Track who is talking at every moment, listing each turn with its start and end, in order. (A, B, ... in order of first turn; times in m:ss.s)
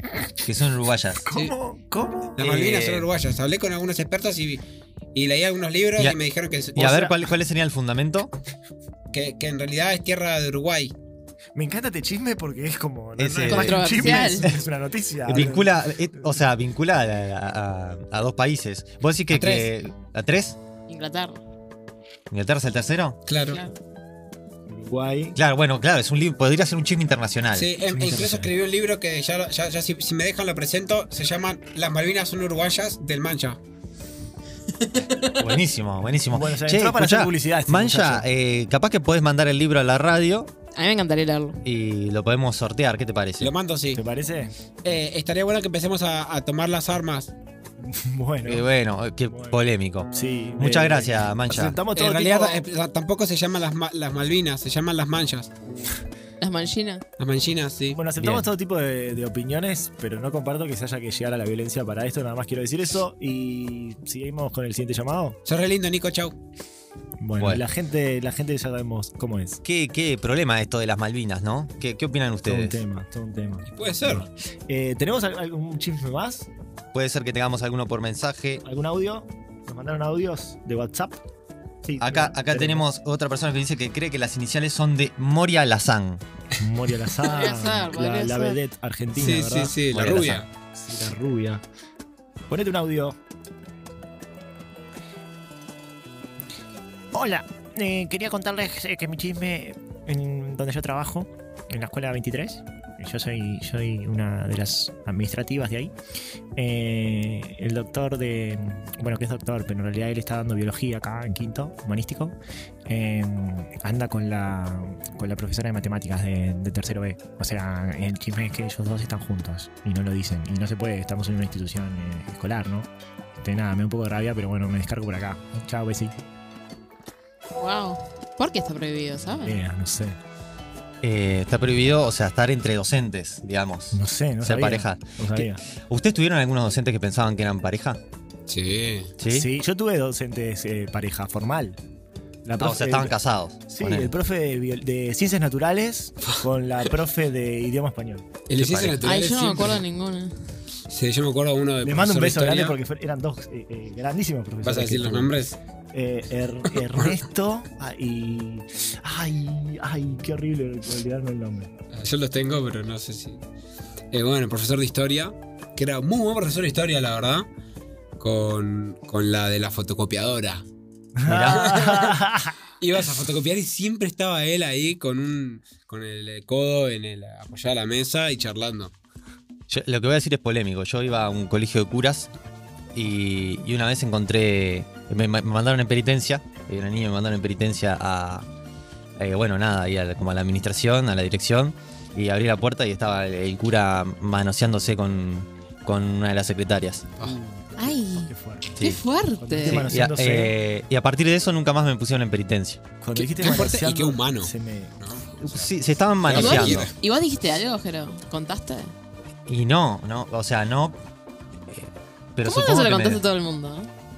0:00.4-0:01.3 A
0:01.2-0:02.4 B
0:02.4-0:04.6 C
0:02.4-0:03.1 A
0:05.1-0:07.3 C
0:06.7-0:08.3 A
0:09.1-0:10.9 C
0:11.5-0:16.4 B
0:13.2-0:14.6 A
0:13.4-0:14.5 D
0:15.3-0:20.6 A
0:19.3-0:19.7 C
0:20.9-0:21.4 D
0:22.3-0:23.2 A
0:23.3-0:23.6 C
0:23.5-0:23.7 D
0:24.7-0:25.4 B
0:25.4-0:27.7 A
0:27.5-0:33.6 C
0:27.9-0:28.5 B
0:34.9-0:35.4 C
0:35.4-0:40.5 A
0:36.3-0:38.3 B
0:40.8-0:41.6 D
0:41.6-0:43.5 A
0:43.4-0:44.0 C
0:43.9-0:44.5 B
0:44.8-0:47.3 C
0:47.8-0:48.7 B
0:48.4-0:51.8 A
0:49.3-0:52.6 B
0:51.9-0:55.5 C
0:56.4-0:57.0 D
0:57.2-0:58.0 C
0:57.9-1:05.4 B
0:58.2-0:58.5 A
1:05.4-1:06.4 C
1:07.2-1:09.6 B
1:07.4-1:07.6 A
1:09.6-1:12.8 A
1:12.4-1:16.5 B
1:13.7-1:14.3 C
1:16.9-1:18.6 A
1:18.6-1:21.2 B
1:21.8-1:22.8 B
1:22.0-1:26.2 A
1:26.6-1:29.8 B
1:27.2-1:28.6 D
1:29.2-1:30.4 C
1:29.9-1:30.4 A
1:30.7-1:31.6 B
1:32.5-1:33.2 B
1:37.1-1:45.9 B
1:46.6-2:06.2 B
2:07.6-2:09.6 D
2:09.4-2:10.2 B
2:11.0-2:18.0 A
2:13.9-2:15.6 B
2:18.5-2:19.1 C
2:19.2-2:19.5 A
2:19.3-2:21.8 B
2:22.4-2:28.3 B
2:22.6-2:24.1 A
2:28.5-2:29.8 C
2:28.6-2:29.0 A
2:29.0-2:30.4 D
2:30.9-2:32.8 C
2:31.8-2:41.7 B
2:34.6-2:35.6 C
2:36.7-2:37.1 C
2:41.9-2:43.4 C
2:44.1-2:47.5 C
2:48.2-2:50.6 C
2:51.2-2:52.6 B
2:51.3-2:51.8 A
2:51.5-2:52.1 C
2:52.8-2:58.9 C
2:59.7-3:02.3 A
3:02.9-3:08.5 A
3:09.2-3:17.1 A
3:17.2-3:18.8 B
3:17.8-3:19.9 D
3:18.8-3:19.0 A
3:19.4-3:20.6 B
3:19.6-3:22.8 A
3:23.0-3:24.9 B
3:23.2-3:25.7 C
3:25.4-3:26.9 A
3:26.2-3:26.9 C
3:26.3-3:28.9 D
3:29.5-3:31.0 A
3:31.7-3:33.2 A
3:32.4-3:33.9 D